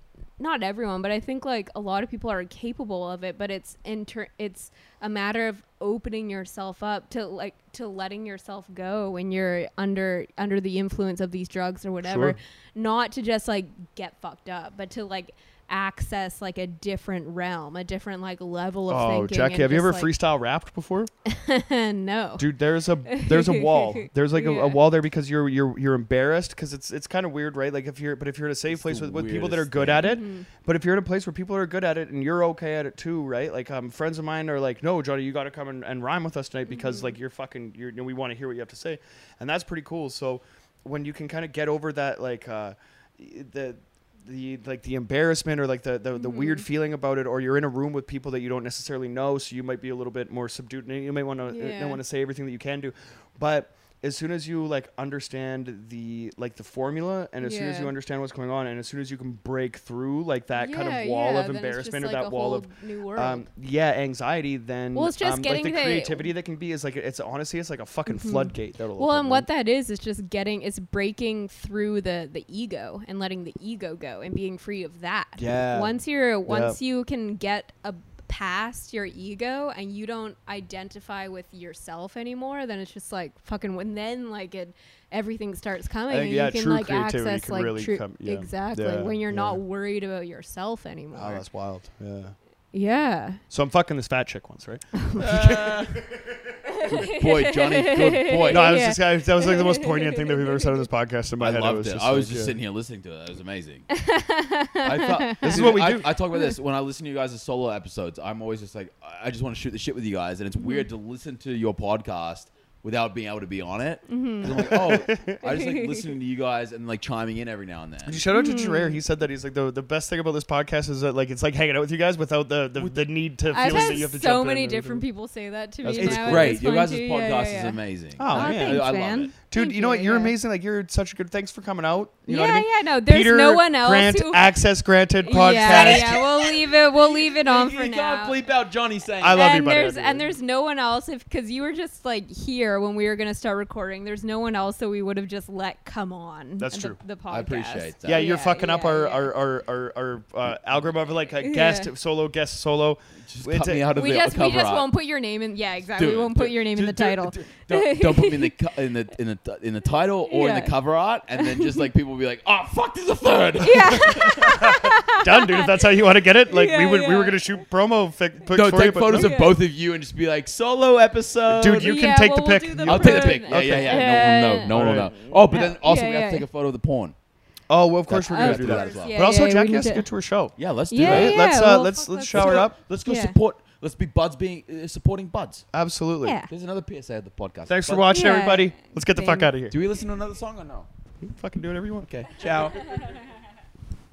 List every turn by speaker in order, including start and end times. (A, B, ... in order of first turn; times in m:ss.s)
0:00.4-0:20.1 A
0:12.0-0:12.4 B
0:18.9-0:21.1 B
0:21.2-0:22.5 A
0:22.4-1:09.5 B
0:23.0-0:24.8 A
0:28.7-0:30.1 C
0:30.0-0:30.5 A
0:36.7-0:37.1 A
0:46.2-0:46.6 A
0:51.5-0:52.0 A
0:57.4-0:57.9 A
1:00.6-1:03.4 A
1:04.9-1:06.3 A
1:08.1-1:31.4 A
1:15.4-1:16.8 B
1:26.1-1:29.6 B
1:31.1-1:32.3 B
1:32.7-1:33.4 A
1:33.5-1:36.5 B
1:35.0-1:35.2 A
1:35.2-1:36.0 C
1:36.6-1:40.9 A
1:36.8-1:38.8 C
1:38.5-1:42.5 B
1:41.4-1:43.8 C
1:43.9-1:45.7 A
1:44.8-1:58.2 C
1:45.4-1:46.1 B
1:50.6-1:50.9 A
1:54.1-1:56.1 A
1:54.5-1:55.4 B
1:58.0-2:05.0 B
1:58.3-1:59.0 A
2:02.8-2:04.0 C
2:03.5-2:10.3 A
2:05.8-2:06.6 B
2:06.0-2:09.3 C
2:08.2-2:08.9 B
2:09.5-2:16.2 B
2:12.3-2:14.4 A
2:15.2-2:18.4 A
2:15.6-2:19.5 C
2:19.2-2:20.3 B
2:19.2-2:29.3 A
2:26.6-2:27.0 B
2:27.3-2:28.3 C
2:28.0-2:33.9 B
2:31.4-2:31.9 A
2:33.2-2:34.9 C
2:33.9-2:38.6 A
2:36.0-2:44.6 C
2:40.3-2:40.7 A
2:41.4-2:41.9 A
2:43.6-2:47.4 A
2:44.0-2:49.3 B
2:48.5-2:52.0 C
2:49.1-2:49.6 A
2:51.5-2:54.0 B
2:51.8-2:56.4 A
2:52.8-2:57.1 C
2:54.7-2:55.1 B
2:57.7-3:02.7 B
2:58.1-2:59.1 C
2:58.2-3:00.1 A
3:00.6-3:01.4 C
3:00.9-3:03.4 A
3:02.3-3:05.6 C
3:05.7-3:06.4 B
3:06.2-3:06.5 A
3:06.5-3:08.1 C
3:07.7-3:09.8 B
3:08.1-3:09.5 A
3:09.7-3:10.9 C
3:11.2-3:12.7 B
3:12.1-3:12.9 C